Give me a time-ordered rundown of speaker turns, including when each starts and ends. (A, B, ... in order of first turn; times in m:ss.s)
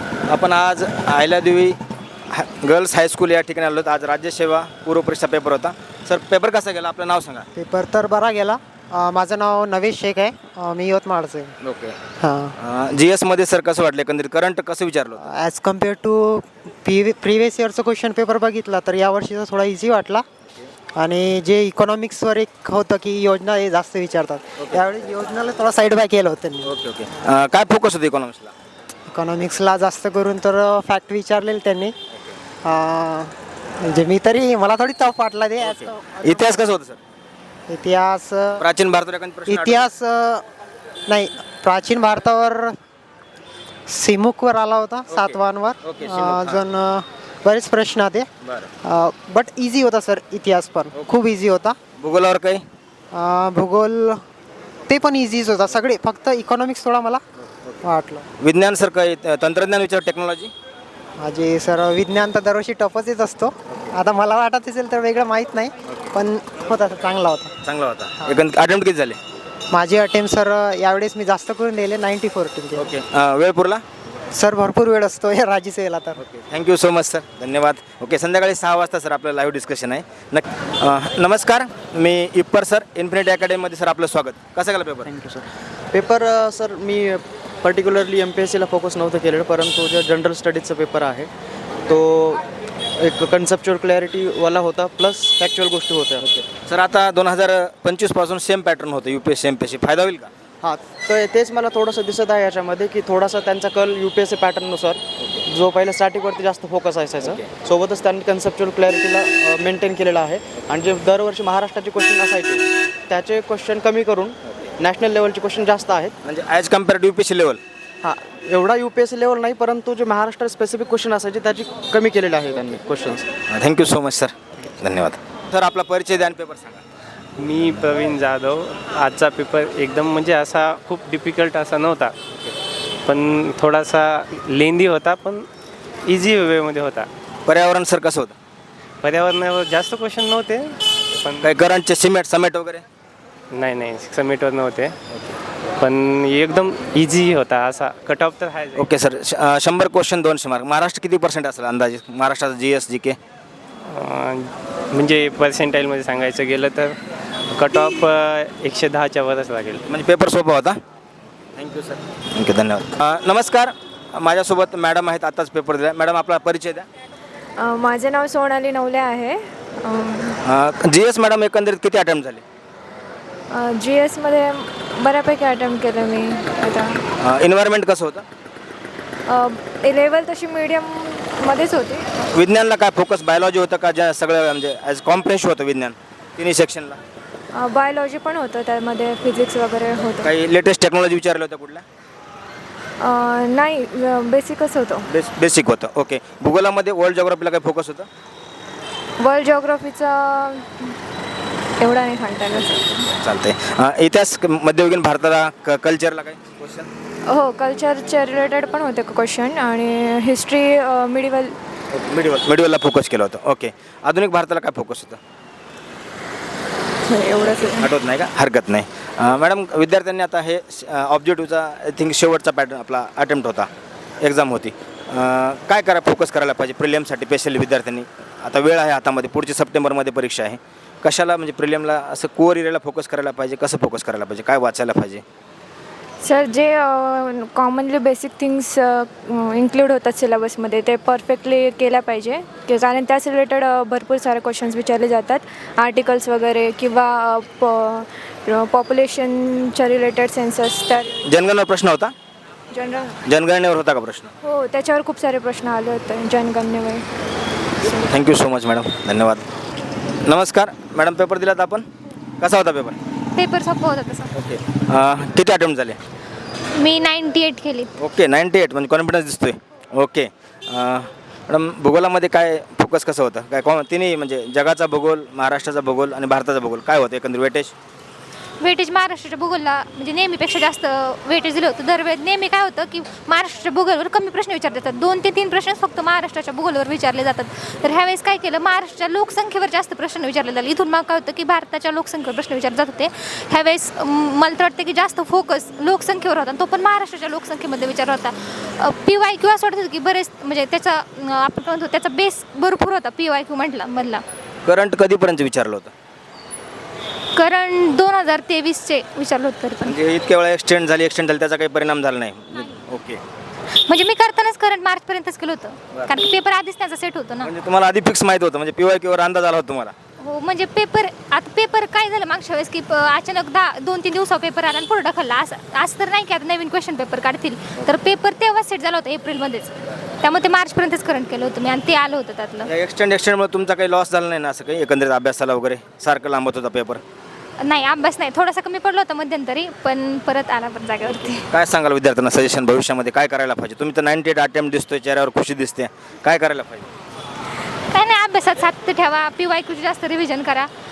0:00.3-0:01.8 A
0:02.3-0:07.4 A
0:07.5-0:11.5 B
0:11.6-0:12.0 A
0:12.2-0:12.5 B
0:12.6-0:15.2 A
0:15.2-0:20.2 B
0:21.0-0:26.7 B
0:26.6-0:28.5 A
0:29.1-0:31.9 B
0:32.6-0:36.6 B
0:35.6-0:37.0 A
0:37.7-0:38.6 B
0:38.6-0:39.9 A
0:39.4-0:40.4 B
0:41.1-0:42.7 B
0:43.9-0:48.3 B
0:45.1-0:46.6 A
0:48.4-0:48.7 A
0:48.8-0:51.8 B
0:52.0-0:52.6 A
0:53.1-0:54.2 B
0:54.9-0:57.2 B
0:57.5-0:57.8 A
0:57.8-0:58.2 B
0:58.4-1:00.5 A
1:01.2-1:07.5 B
1:07.6-1:09.2 A
1:09.7-1:12.9 B
1:12.8-1:13.8 A
1:14.3-1:16.2 B
1:16.2-1:25.1 A
1:25.0-1:31.3 C
1:31.9-1:32.4 C
1:33.0-1:36.2 C
1:36.2-1:40.3 A
1:40.6-1:56.1 C
1:47.2-1:47.5 A
1:56.2-1:57.6 A
1:58.0-2:03.2 C
2:03.5-2:06.8 A
2:07.4-2:12.1 D
2:13.0-2:15.5 D
2:16.0-2:17.1 D
2:17.4-2:18.3 A
2:19.0-2:21.5 D
2:21.4-2:22.8 A
2:23.5-2:24.9 D
2:25.8-2:28.9 D
2:28.7-2:33.2 A
2:33.8-2:37.0 D
2:37.5-2:39.8 D
2:39.9-2:40.8 A
2:41.6-2:46.9 A
2:47.6-2:50.4 E
2:50.4-2:52.4 A
2:53.5-2:57.0 E
2:57.2-2:58.2 A
2:59.3-3:02.1 E
3:02.3-3:07.0 A
3:07.5-3:10.3 E
3:10.2-3:11.8 A
3:13.0-3:15.1 E
3:15.1-3:18.1 A
3:19.2-3:20.9 E
3:21.8-3:23.1 E
3:23.1-3:26.9 A
3:27.3-3:31.5 E
3:31.9-3:35.2 A
3:37.0-3:37.9 E
3:37.7-3:43.7 A
3:44.2-3:55.2 A
3:56.2-4:11.2 E
4:11.2-4:12.1 A
4:12.7-4:13.2 E
4:13.2-4:14.3 A
4:14.4-4:17.0 E
4:17.9-4:19.4 A
4:20.2-4:21.8 A
4:22.4-4:23.0 A
4:23.4-4:24.3 F
4:24.3-4:26.0 A
4:26.7-4:27.9 F
4:28.0-4:37.7 A
4:38.6-5:04.2 F
5:04.6-5:05.9 A
5:07.3-5:09.9 F
5:09.8-5:13.2 A
5:13.9-5:17.5 F
5:17.4-5:19.9 A
5:20.2-5:32.7 F
5:32.7-5:37.0 A
5:37.6-5:41.5 F
5:41.1-5:46.9 A
5:47.9-5:50.7 F